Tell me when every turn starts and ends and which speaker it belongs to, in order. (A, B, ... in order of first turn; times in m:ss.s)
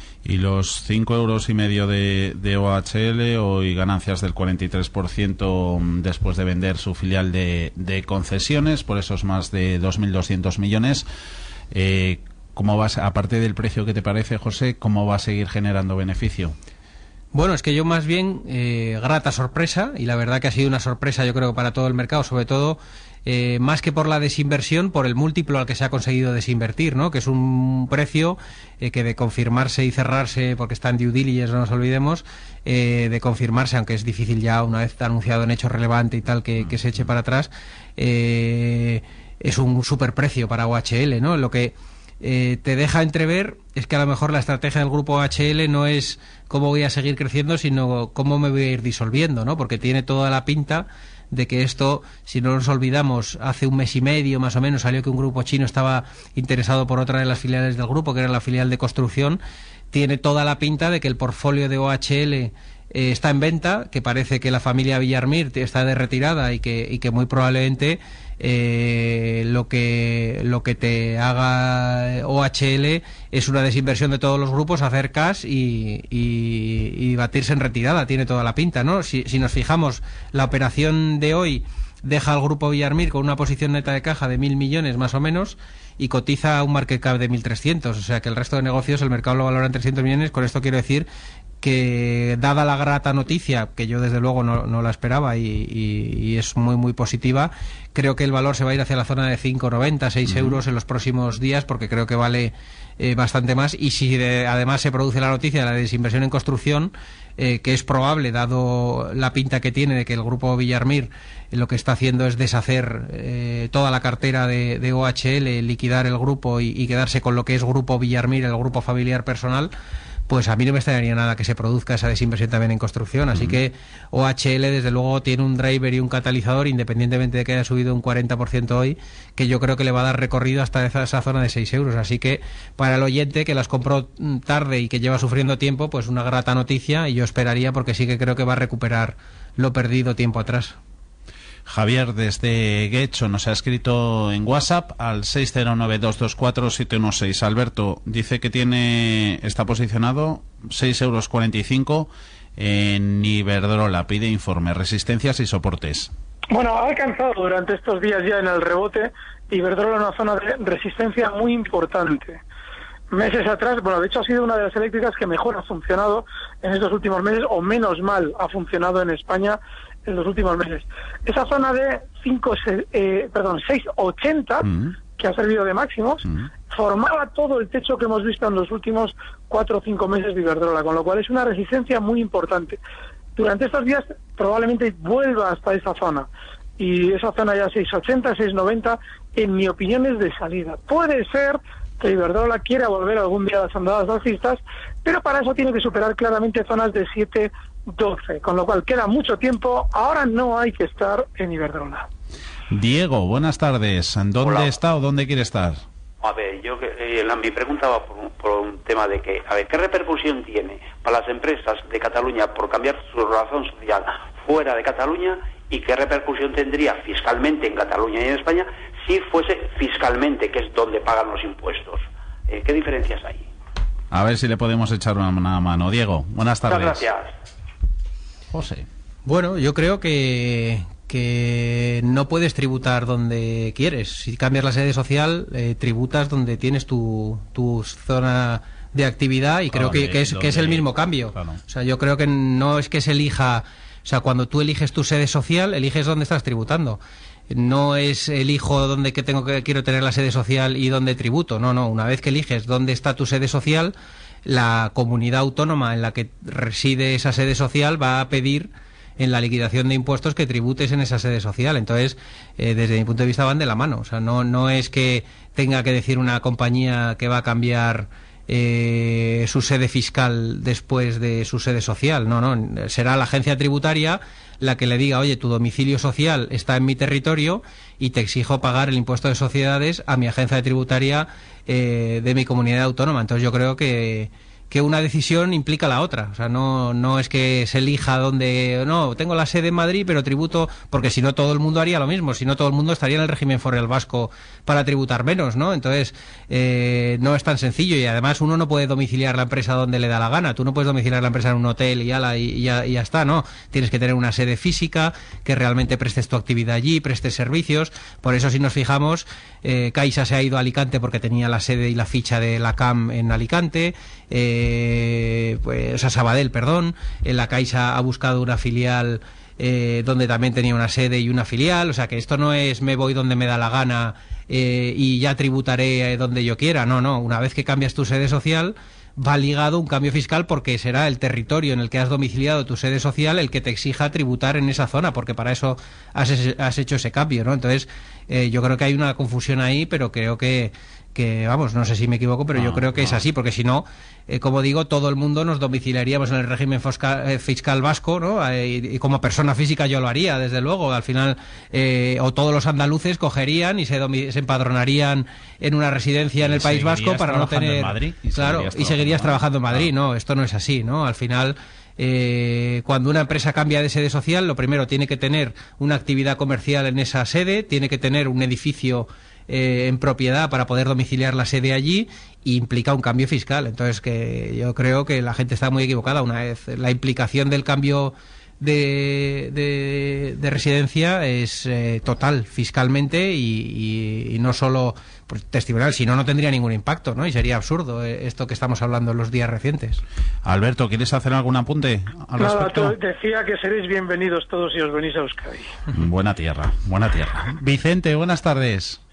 0:00.2-0:11.1 A
0:11.7-0:16.6 A
0:17.3-0:59.4 B
0:36.6-0:37.0 A
0:59.9-1:31.1 B
1:31.6-1:59.7 B
1:40.3-1:40.6 A
2:00.3-2:20.8 B
2:21.7-2:36.1 A
2:36.5-2:42.4 C
2:43.1-3:02.8 C
2:54.7-2:54.9 A
3:03.4-3:22.1 C
3:22.7-3:25.8 A
3:26.2-3:43.5 D
3:44.1-3:47.0 A
3:46.7-3:47.3 D
3:48.5-3:48.9 A
3:49.3-4:07.0 B
3:59.7-4:01.6 A
4:07.5-6:30.0 B
5:42.6-5:43.2 A
5:56.4-5:59.9 A
6:30.4-6:33.0 A
6:32.4-6:35.7 C
6:35.9-6:39.0 A